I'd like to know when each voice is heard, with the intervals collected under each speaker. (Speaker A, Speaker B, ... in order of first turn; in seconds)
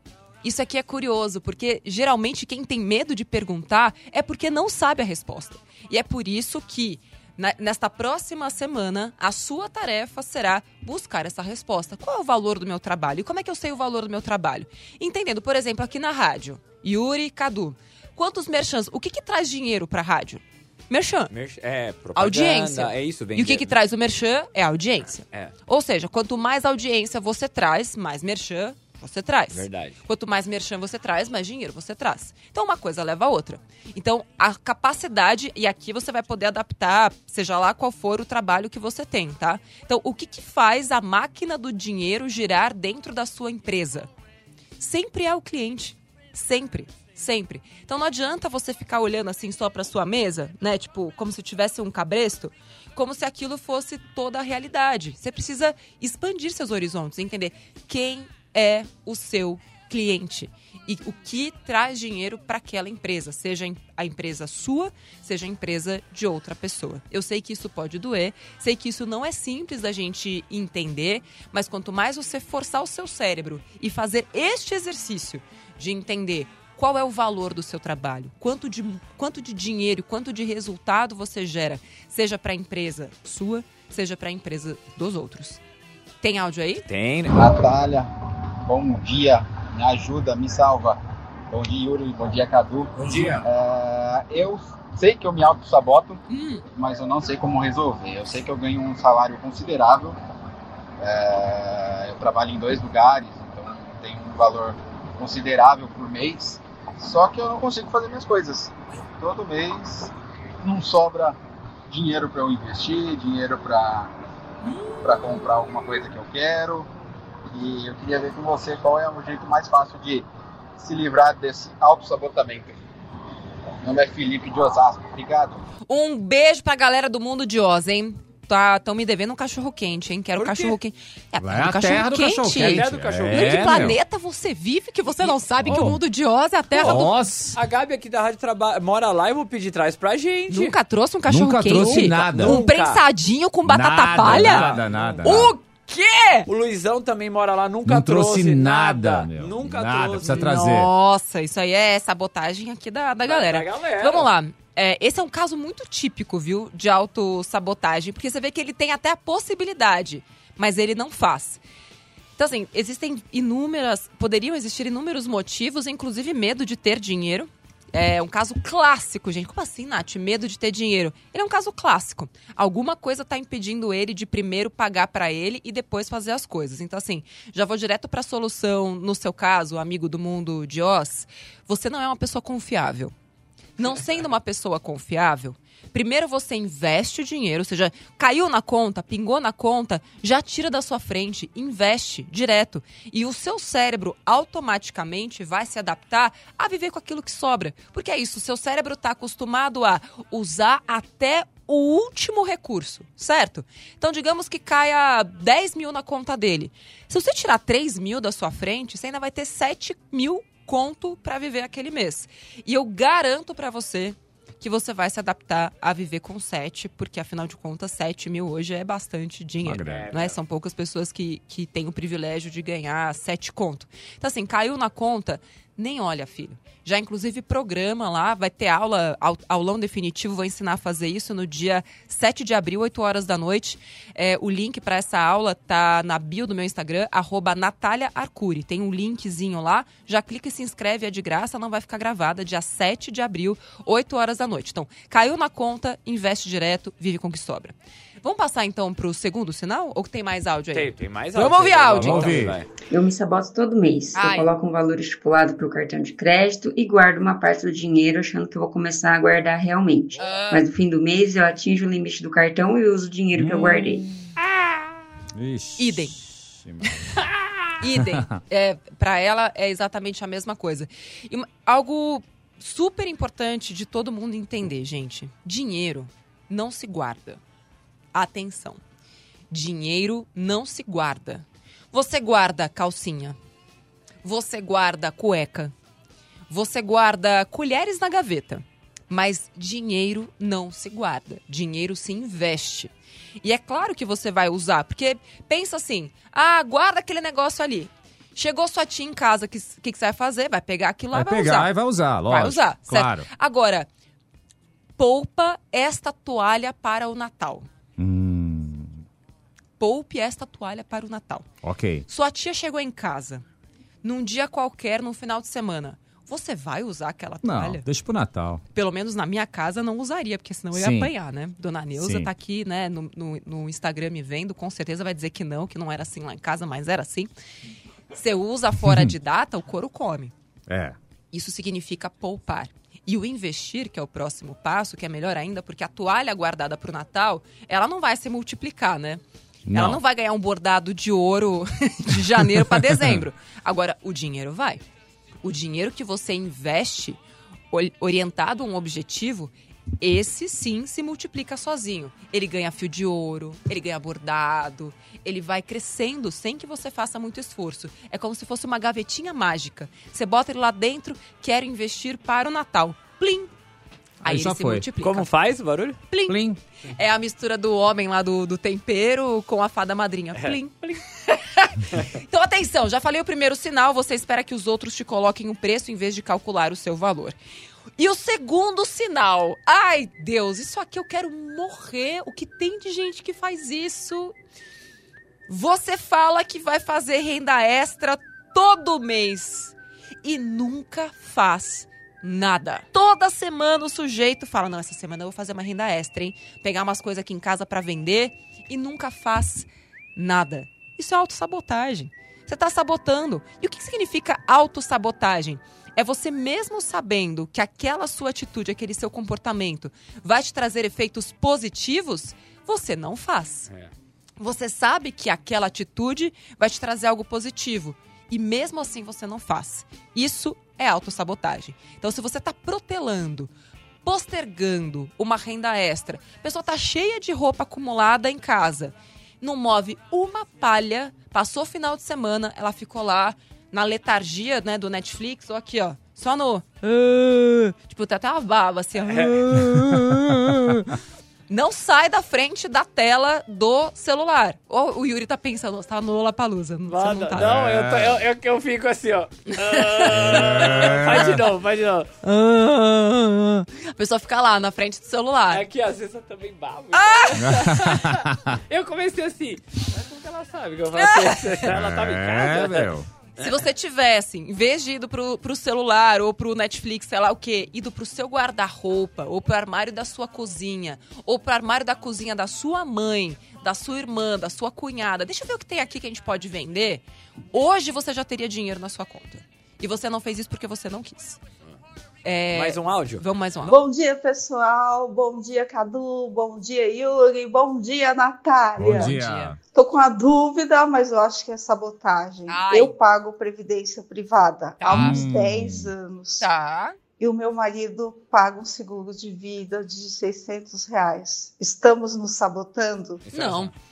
Speaker A: 0.4-21.3, 22.1-44.1, 44.8-85.6, 86.2-86.8, 96.3-96.6, 125.9-137.1, 140.5-146.5, 150.3-161.6, 162.4-183.1, 183.8-252.4, 254.1-254.5, 260.2-260.6, 265.8-266.1, 267.8-277.4, 278.1-278.8, 279.5-283.4, 284.2-285.7, 286.5-301.7, 302.2-303.9, 305.0-307.7, 309.8-311.5, 312.1-313.4, 314.0-317.8, 318.7-327.3, 328.1-330.3, 331.3-339.2, 339.7-344.8, 345.4-347.2, 347.7-363.5, 364.2-365.3, 366.1-377.4, 378.0-384.3, 385.5-413.7, 414.4-423.5, 424.0-440.9, 441.5-447.5, 449.6-451.0, 452.2-455.6, 456.9-457.9, 461.0-461.6, 463.4-481.4, 482.2-483.8, 488.9-489.5, 492.5-492.9, 494.8-495.2, 496.4-497.0, 503.3-503.7
Speaker B: 21.3-23.7, 29.5-30.0, 86.9-87.4, 130.4-130.8, 132.6-133.9, 135.2-135.9, 136.8-140.8, 141.7-143.0, 144.2-145.5, 146.5-150.7, 153.2-154.3, 219.8-220.4, 250.7-252.7, 365.0-366.0, 439.0-439.5, 446.9-452.1, 455.5-463.5, 482.5-483.2, 503.2-503.7
Speaker C: 87.3-88.1, 88.6-91.0, 91.5-96.2, 96.8-100.2, 101.0-111.4, 111.9-114.1, 114.8-116.9, 117.5-120.2, 120.8-122.8, 123.8-125.6
Speaker D: 93.0-93.4, 131.4-134.0, 135.6-136.0, 136.8-137.6, 141.3-142.7, 143.6-145.5, 147.8-150.9, 219.6-220.1, 252.0-252.6, 263.3-264.0, 265.4-267.0, 268.0-268.4, 301.1-303.3, 308.0-309.0, 311.6-312.1, 317.4-318.6, 320.7-321.1, 322.0-322.3, 328.8-329.1, 330.7-330.9, 339.7-340.0, 342.6-343.2, 364.2-364.9, 366.3-366.6, 447.4-448.1, 450.2-451.3, 457.4-458.4, 461.7-463.1, 488.8-489.6, 494.9-495.9
Speaker E: 252.9-264.1
Speaker F: 483.7-489.1, 489.6-496.4, 497.2-503.2